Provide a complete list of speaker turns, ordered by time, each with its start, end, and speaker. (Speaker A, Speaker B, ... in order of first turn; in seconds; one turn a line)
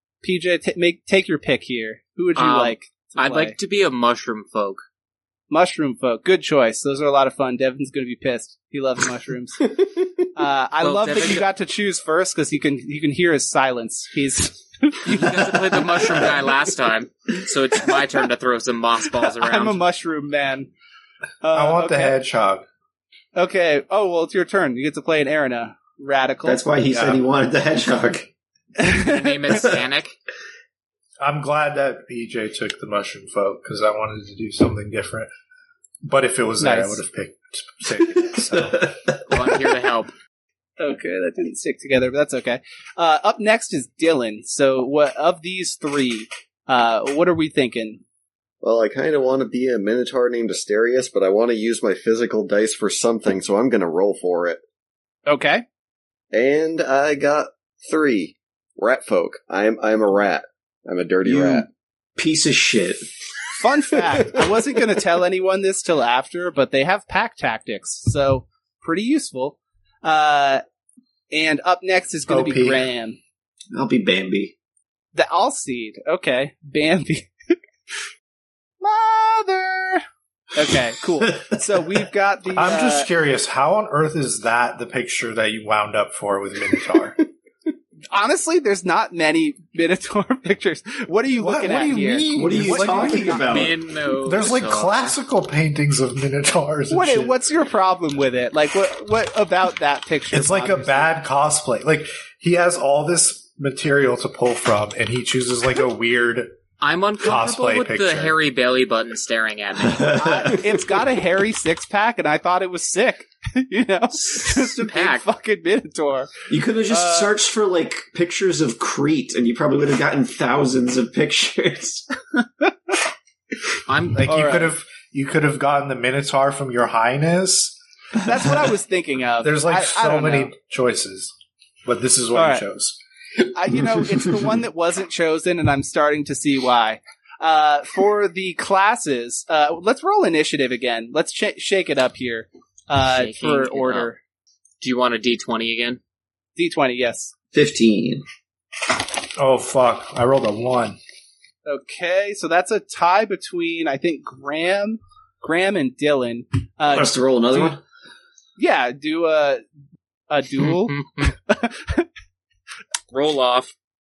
Speaker A: 0.2-3.5
Speaker B: 2.3-4.8
Speaker A: 5.5-9.7
Speaker A: 10.3-16.5
Speaker B: 10.8-11.4
Speaker B: 15.1-19.8
Speaker A: 19.1-20.7
Speaker A: 21.4-22.1
Speaker C: 21.5-22.7
Speaker A: 23.3-26.6
Speaker D: 26.4-28.3
Speaker C: 26.9-27.2
Speaker A: 28.8-29.6
Speaker B: 28.9-30.2
Speaker C: 31.2-35.3
Speaker C: 36.0-38.9
Speaker A: 36.6-37.0
Speaker D: 38.0-39.5
Speaker B: 39.3-40.1
Speaker A: 40.8-48.0
Speaker E: 48.6-54.6
Speaker A: 55.3-55.6
Speaker E: 56.3-61.7
Speaker D: 61.2-61.6
Speaker D: 62.2-63.1
Speaker A: 63.6-70.6
Speaker A: 71.3-73.2
Speaker C: 72.3-72.8
Speaker D: 73.7-74.5
Speaker A: 75.1-77.5
Speaker A: 78.8-80.0
Speaker A: 80.5-83.1
Speaker D: 81.2-81.6
Speaker C: 82.5-87.2
Speaker A: 88.1-93.5
Speaker C: 91.4-93.4
Speaker D: 92.3-93.8
Speaker B: 93.4-95.2
Speaker C: 94.2-97.4
Speaker A: 96.9-101.1
Speaker C: 100.3-106.5
Speaker B: 106.8-110.1
Speaker C: 107.2-108.3
Speaker D: 109.8-110.8
Speaker A: 110.2-116.3
Speaker B: 114.2-115.3
Speaker D: 116.5-122.1
Speaker A: 116.9-117.3
Speaker A: 122.6-123.0
Speaker B: 123.8-124.5
Speaker C: 124.2-127.8
Speaker A: 124.2-124.7
Speaker A: 128.2-130.5
Speaker C: 128.4-128.7
Speaker C: 129.4-131.3
Speaker C: 131.8-133.0
Speaker A: 132.3-132.6
Speaker A: 133.5-144.2
Speaker B: 143.0-144.1
Speaker B: 144.8-146.0
Speaker A: 146.6-147.3
Speaker D: 147.5-148.2
Speaker C: 149.4-151.0
Speaker A: 151.7-157.8
Speaker D: 156.9-157.8
Speaker A: 158.6-159.6
Speaker A: 160.3-162.1
Speaker B: 160.6-161.3
Speaker B: 163.1-163.7